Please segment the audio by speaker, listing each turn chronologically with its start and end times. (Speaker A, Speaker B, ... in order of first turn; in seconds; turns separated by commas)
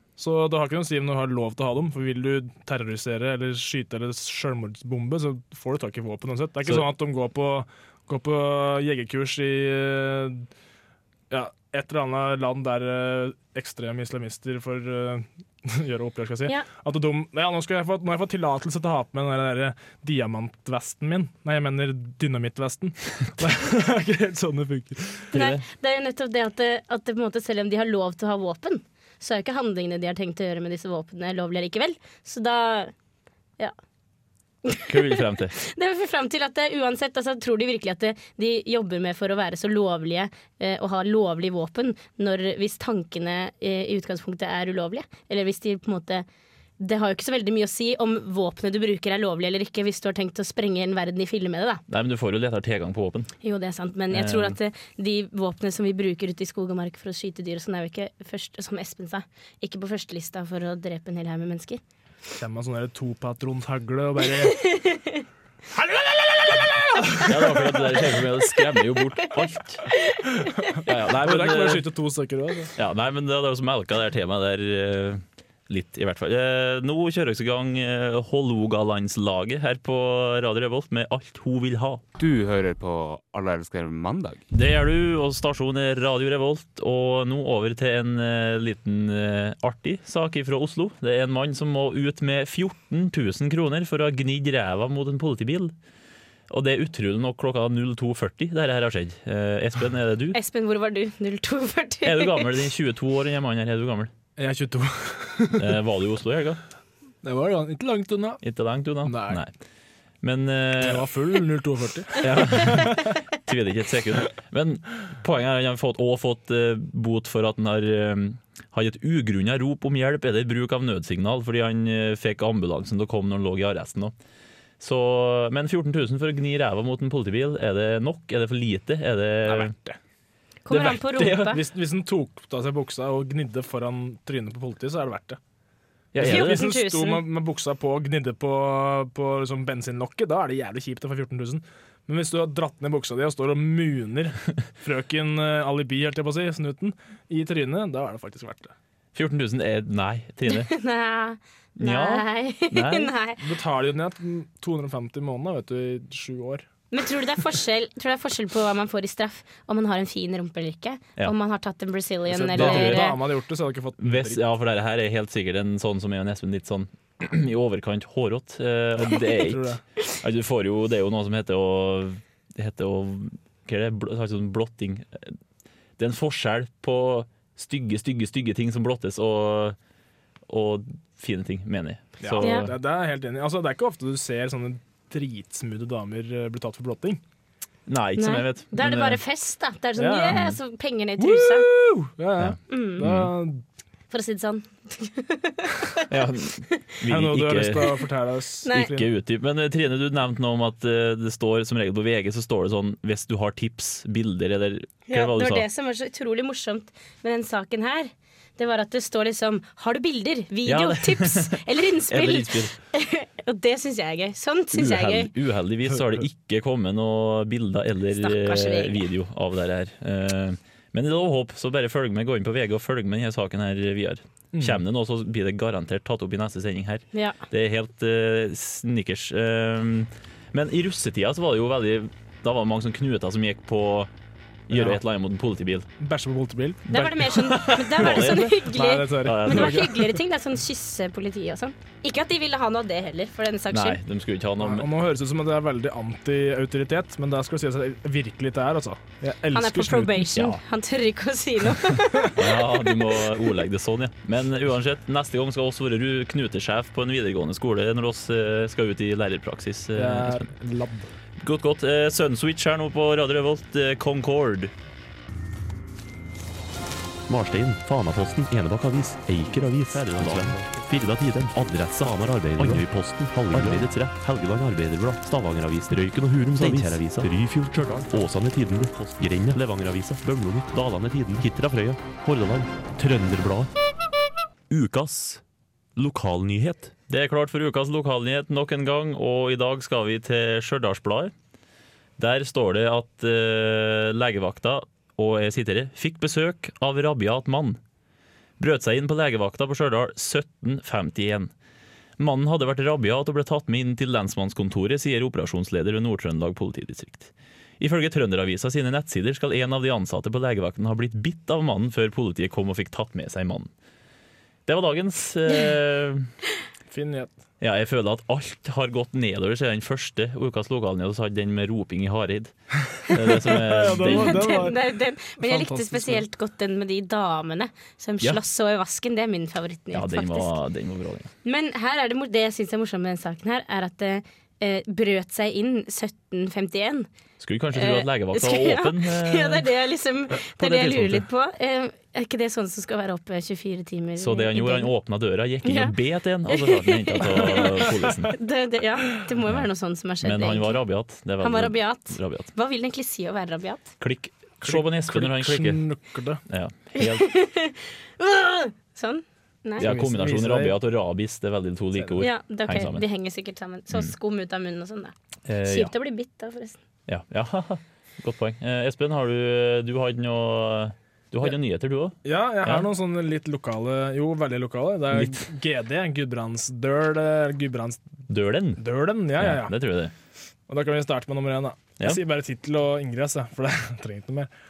Speaker A: 0.2-10.5, Speaker A: 11.3-25.3, Speaker B: 25.3-25.6, Speaker C: 25.3-32.9, Speaker C: 34.6-46.2, Speaker B: 34.9-35.6, Speaker C: 46.8-51.8, Speaker B: 51.9-53.3, Speaker C: 53.4-61.8, Speaker B: 54.1-54.5, Speaker A: 62.3-64.6, Speaker C: 64.5-65.2, Speaker A: 65.7-67.8, Speaker B: 67.2-69.9, Speaker C: 70.0-70.7, Speaker B: 70.8-71.8, Speaker A: 71.2-72.7, Speaker B: 72.8-82.0, Speaker D: 82.2-84.4, Speaker B: 84.5-95.7, Speaker B: 96.5-100.4, Speaker C: 100.3-102.5, Speaker B: 102.0-104.1, Speaker A: 104.4-105.8, Speaker B: 105.5-106.6, Speaker A: 107.2-108.4, Speaker B: 108.4-109.5, Speaker A: 109.0-109.4, Speaker B: 110.2-111.1, Speaker A: 110.8-113.1, Speaker B: 112.2-124.1, Speaker B: 124.8-129.7, Speaker A: 129.4-130.0, Speaker C: 130.6-131.6, Speaker B: 130.7-131.6, Speaker A: 131.5-135.4, Speaker B: 136.1-136.7, Speaker A: 136.2-148.7, Speaker C: 136.2-137.2, Speaker B: 149.1-150.7, Speaker C: 150.5-153.4, Speaker B: 151.8-153.1, Speaker A: 153.4-156.7, Speaker C: 156.9-163.2, Speaker A: 162.3-164.4, Speaker B: 162.5-163.1, Speaker B: 164.0-175.3, Speaker A: 169.1-169.8, Speaker B: 176.0-179.8, Speaker B: 180.5-182.7, Speaker A: 182.2-187.2, Speaker C: 182.4-182.7, Speaker B: 187.9-189.2, Speaker C: 188.2-191.7, Speaker A: 190.0-190.4, Speaker A: 191.2-193.6, Speaker B: 192.4-193.3, Speaker C: 192.7-193.1, Speaker C: 194.1-196.1, Speaker B: 196.1-197.9, Speaker A: 197.0-199.1, Speaker C: 198.6-198.9, Speaker B: 198.7-205.7, Speaker C: 205.1-215.3, Speaker B: 210.7-212.7, Speaker B: 214.7-234.1, Speaker C: 218.1-219.0, Speaker A: 224.5-224.8, Speaker C: 227.1-227.4, Speaker B: 234.7-235.9, Speaker A: 234.7-235.0, Speaker A: 236.0-237.1, Speaker B: 236.9-238.7, Speaker C: 236.9-244.0, Speaker A: 237.9-240.1, Speaker B: 239.2-240.0, Speaker B: 243.7-244.9, Speaker A: 244.6-250.3, Speaker C: 249.5-252.9, Speaker B: 252.3-260.5, Speaker A: 259.9-261.1, Speaker B: 261.4-264.7, Speaker E: 267.3-283.7, Speaker B: 270.2-270.6, Speaker B: 272.6-272.8, Speaker B: 273.5-273.9, Speaker B: 276.5-277.3, Speaker B: 284.7-285.4, Speaker B: 286.0-286.4, Speaker E: 286.1-286.8, Speaker B: 286.9-291.3, Speaker B: 292.2-297.8, Speaker B: 298.6-301.5, Speaker B: 302.2-313.7, Speaker B: 314.7-316.3, Speaker A: 316.9-317.3, Speaker B: 317.6-324.6, Speaker A: 323.4-326.2, Speaker C: 323.9-330.6, Speaker B: 329.9-331.3, Speaker C: 331.4-337.1, Speaker B: 337.4-339.7, Speaker C: 337.7-344.9, Speaker B: 340.4-341.2, Speaker B: 344.2-348.3, Speaker C: 345.6-345.9, Speaker C: 346.5-350.8, Speaker A: 347.5-348.1, Speaker B: 350.2-352.5, Speaker C: 351.4-353.9, Speaker B: 354.0-355.8, Speaker A: 354.6-356.4, Speaker B: 356.5-357.3, Speaker C: 357.0-359.9, Speaker A: 359.8-360.8, Speaker B: 359.8-363.0, Speaker A: 361.9-362.2, Speaker C: 362.2-366.8, Speaker B: 365.5-365.9, Speaker B: 367.1-372.9, Speaker A: 372.2-378.0, Speaker B: 375.1-375.4, Speaker B: 378.3-378.8, Speaker A: 378.8-379.7, Speaker B: 379.3-380.1, Speaker A: 380.7-384.5